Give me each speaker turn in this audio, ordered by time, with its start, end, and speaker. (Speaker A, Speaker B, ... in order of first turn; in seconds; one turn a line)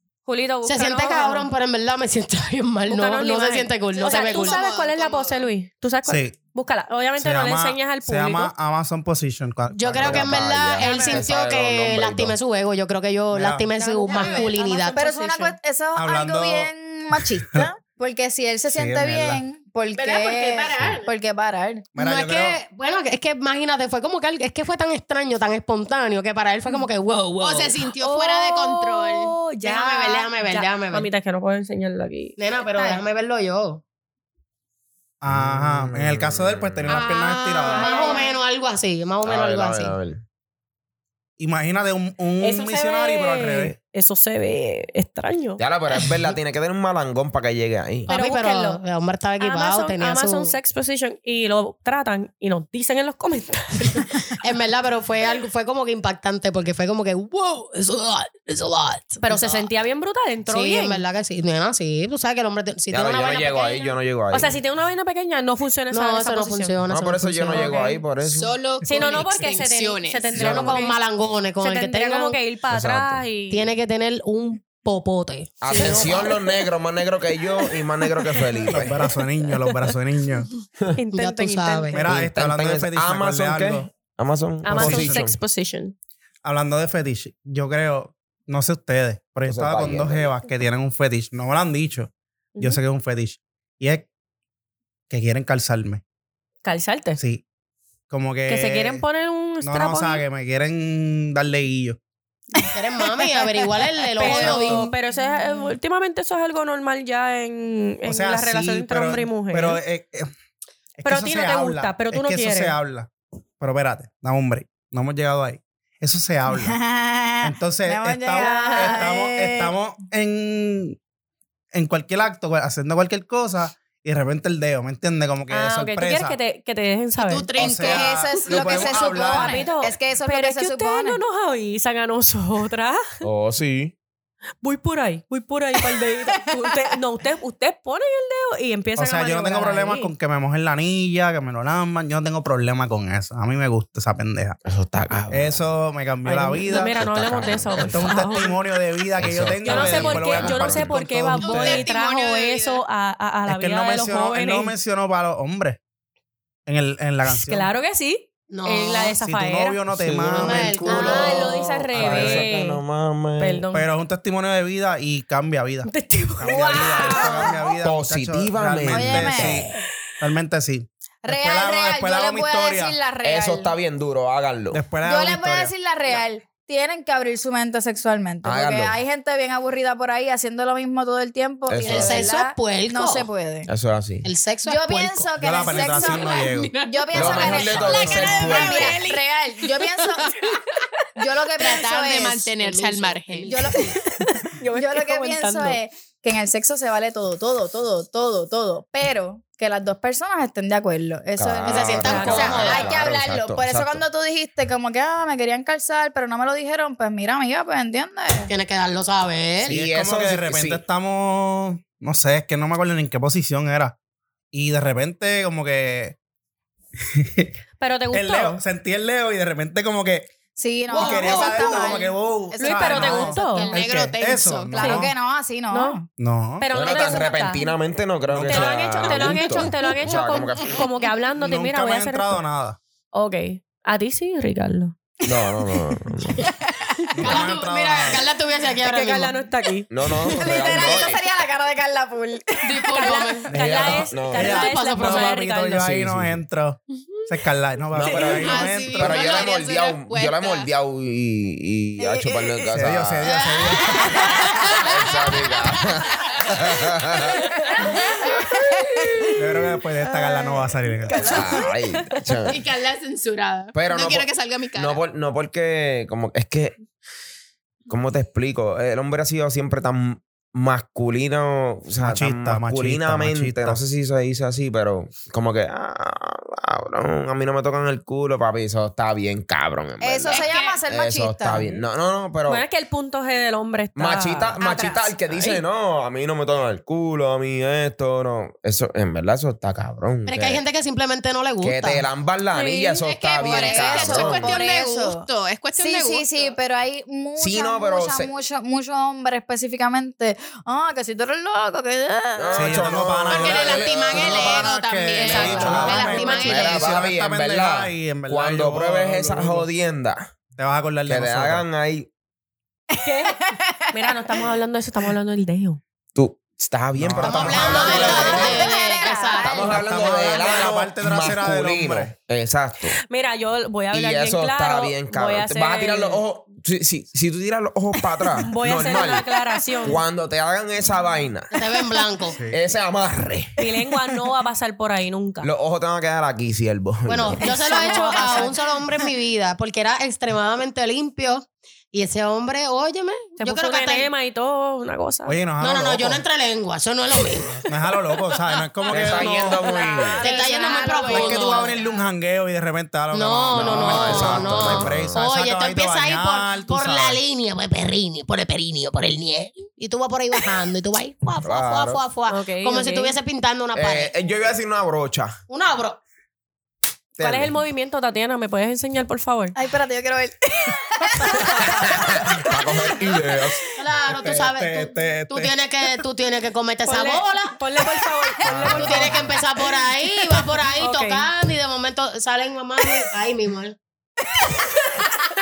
Speaker A: 0.3-1.5
Speaker B: 0.7-4.6
Speaker A: 2.9-8.5
Speaker C: 3.9-5.5
Speaker D: 6.1-6.4
Speaker D: 7.2-10.5
Speaker B: 9.7-15.1
Speaker E: 9.9-12.4
Speaker A: 10.8-11.3
Speaker D: 13.3-13.7
Speaker A: 13.8-15.6
Speaker F: 14.1-21.9
Speaker C: 14.1-14.6
Speaker D: 16.0-17.7
Speaker D: 18.7-19.4
Speaker C: 19.9-21.1
Speaker D: 21.9-22.6
Speaker B: 22.0-27.9
Speaker C: 27.4-29.4
Speaker A: 28.0-33.0
Speaker B: 29.6-31.1
Speaker B: 32.4-33.8
Speaker D: 35.2-37.9
Speaker E: 35.3-37.0
Speaker C: 36.9-38.3
Speaker B: 37.1-40.0
Speaker A: 37.6-38.3
Speaker E: 39.2-40.2
Speaker D: 41.4-43.8
Speaker A: 42.4-45.6
Speaker E: 45.6-48.1
Speaker B: 48.1-50.5
Speaker A: 48.1-48.8
Speaker A: 49.4-54.1
Speaker B: 54.4-59.7
Speaker A: 59.2-61.0
Speaker B: 60.5-64.0
Speaker E: 62.9-64.6
Speaker A: 64.3-66.8
Speaker B: 65.9-67.8
Speaker E: 66.9-68.5
Speaker A: 67.5-68.0
Speaker C: 68.2-70.4
Speaker A: 68.8-71.0
Speaker B: 70.3-72.4
Speaker E: 70.3-70.8
Speaker A: 71.6-73.8
Speaker E: 72.7-73.2
Speaker B: 73.5-76.6
Speaker E: 75.6-79.1
Speaker D: 78.7-80.5
Speaker A: 81.0-82.1
Speaker B: 81.1-82.1
Speaker D: 81.9-83.9
Speaker E: 82.0-85.4
Speaker A: 84.6-86.0
Speaker D: 84.7-85.3
Speaker D: 86.4-94.1
Speaker E: 89.5-90.3
Speaker A: 92.6-92.8
Speaker D: 95.1-96.0
Speaker A: 96.6-97.2
Speaker D: 97.2-97.4
Speaker D: 98.1-99.0
Speaker A: 98.5-100.2
Speaker D: 99.6-102.0
Speaker B: 102.7-104.9
Speaker A: 104.2-109.8
Speaker D: 104.2-104.9
Speaker D: 108.0-110.3
Speaker D: 111.0-116.8
Speaker A: 111.0-112.8
Speaker F: 116.5-119.7
Speaker D: 117.4-121.0
Speaker A: 118.3-119.1
Speaker D: 121.7-126.4
Speaker A: 125.5-127.5
Speaker C: 127.2-129.1
Speaker D: 127.6-129.6
Speaker F: 127.6-131.2
Speaker A: 129.2-133.2
Speaker E: 133.2-133.9
Speaker A: 134.6-140.1
Speaker F: 136.3-136.7
Speaker D: 139.0-144.6
Speaker E: 144.7-145.8
Speaker D: 145.3-147.1
Speaker A: 146.2-148.5
Speaker E: 146.9-148.2
Speaker D: 147.8-151.9
Speaker E: 149.2-151.0
Speaker A: 149.6-154.8
Speaker C: 151.4-152.8
Speaker D: 153.5-155.8
Speaker D: 156.7-157.7
Speaker A: 157.3-159.8
Speaker B: 158.5-159.1
Speaker D: 159.2-162.5
Speaker E: 159.9-163.7
Speaker B: 160.3-161.6
Speaker A: 160.9-162.8
Speaker A: 163.4-163.9
Speaker D: 163.7-169.7
Speaker A: 165.9-167.6
Speaker F: 166.5-167.7
Speaker E: 167.8-169.5
Speaker F: 168.9-169.7
Speaker D: 170.2-173.0
Speaker F: 171.2-173.7
Speaker E: 173.2-174.9
Speaker D: 174.7-175.7
Speaker F: 175.0-183.7
Speaker E: 178.4-179.0
Speaker E: 181.7-182.3
Speaker B: 181.8-183.3
Speaker E: 183.7-184.3
Speaker B: 184.2-185.3
Speaker F: 184.6-190.3
Speaker D: 185.4-188.5
Speaker C: 185.8-190.6
Speaker E: 187.1-189.0
Speaker F: 191.2-192.5
Speaker C: 191.6-193.6
Speaker B: 191.7-194.0
Speaker F: 193.5-194.0
Speaker A: 194.0-195.8
Speaker F: 194.7-208.5
Speaker E: 201.4-204.0
Speaker B: 201.7-202.9
Speaker A: 202.0-202.8
Speaker B: 208.5-209.8
Speaker E: 209.7-210.8
Speaker D: 209.7-213.9
Speaker D: 214.5-216.2
Speaker D: 217.1-217.5
Speaker A: 217.8-218.6
Speaker D: 218.1-220.3
Speaker F: 220.6-223.7
Speaker B: 220.9-222.0
Speaker D: 220.9-225.1
Speaker C: 221.2-221.9
Speaker A: 222.6-223.7
Speaker C: 223.6-224.9
Speaker F: 224.7-226.1
Speaker A: 224.8-225.1
Speaker A: 225.7-226.0
Speaker D: 226.2-226.9
Speaker A: 226.6-227.7
Speaker E: 226.7-230.8
Speaker D: 228.3-229.6
Speaker A: 228.4-232.4
Speaker D: 231.4-232.8
Speaker A: 233.1-235.0
Speaker E: 235.2-236.5
Speaker F: 236.4-238.0
Speaker D: 237.2-238.2
Speaker B: 237.2-239.4
Speaker A: 238.8-239.9
Speaker E: 239.9-241.2
Speaker F: 240.1-243.5
Speaker B: 242.7-243.5
Speaker A: 243.0-245.9
Speaker D: 243.5-249.4
Speaker E: 243.6-244.6
Speaker B: 244.4-245.4
Speaker E: 245.8-246.4
Speaker E: 247.9-253.4
Speaker C: 248.1-250.7
Speaker F: 252.0-252.7
Speaker D: 252.7-254.3
Speaker B: 253.3-253.8
Speaker F: 253.9-254.7
Speaker E: 254.8-257.3
Speaker C: 255.2-255.7
Speaker F: 257.6-259.3
Speaker C: 257.8-258.3
Speaker D: 259.4-261.4
Speaker F: 260.0-261.6
Speaker A: 261.2-261.7
Speaker E: 261.2-262.6
Speaker C: 262.5-265.0
Speaker E: 263.7-266.8
Speaker E: 267.9-282.6
Speaker D: 272.0-273.8
Speaker F: 280.0-281.8
Speaker C: 280.3-280.8
Speaker A: 282.5-285.6
Speaker E: 284.0-290.6
Speaker F: 284.6-285.0
Speaker B: 290.3-292.0
Speaker E: 291.6-294.6
Speaker A: 292.5-293.0
Speaker C: 293.0-296.6
Speaker F: 293.4-303.1
Speaker E: 297.4-298.3
Speaker E: 302.4-304.6
Speaker D: 302.5-309.7
Speaker C: 303.3-306.8
Speaker A: 305.2-306.9
Speaker E: 305.5-310.3
Speaker B: 305.8-306.5
Speaker F: 305.8-306.2
Speaker D: 310.6-311.7
Speaker E: 311.1-312.1
Speaker F: 313.0-313.9
Speaker A: 313.0-315.8
Speaker E: 316.1-318.7
Speaker D: 317.0-318.6
Speaker F: 317.2-319.8
Speaker B: 317.3-319.8
Speaker A: 317.8-318.1
Speaker E: 319.4-323.0
Speaker D: 319.7-322.1
Speaker F: 320.4-320.7
Speaker A: 323.1-326.2
Speaker E: 323.9-331.5
Speaker A: 328.5-330.0
Speaker B: 331.5-332.4
Speaker D: 332.3-332.6
Speaker E: 332.5-333.5
Speaker A: 333.6-335.5
Speaker E: 335.4-337.5
Speaker B: 337.1-344.1
Speaker A: 337.4-338.6
Speaker F: 337.7-338.5
Speaker A: 343.4-345.4
Speaker D: 345.3-346.2
Speaker B: 345.6-347.7
Speaker D: 347.6-349.7
Speaker E: 348.9-350.2
Speaker F: 349.6-352.0
Speaker B: 350.2-351.8
Speaker C: 350.3-351.3
Speaker D: 351.1-357.2
Speaker B: 353.1-364.1
Speaker E: 353.5-355.3
Speaker E: 361.4-362.0
Speaker A: 362.3-363.2
Speaker E: 363.7-365.4
Speaker B: 365.5-366.0
Speaker E: 367.2-367.5
Speaker A: 367.2-369.6
Speaker F: 369.6-373.4
Speaker A: 371.2-371.7
Speaker E: 371.8-373.6
Speaker B: 373.8-377.6
Speaker D: 374.1-375.6
Speaker A: 376.8-379.3
Speaker F: 378.0-378.7
Speaker E: 378.5-379.4
Speaker B: 378.7-383.8
Speaker A: 380.8-381.3
Speaker F: 385.0-385.3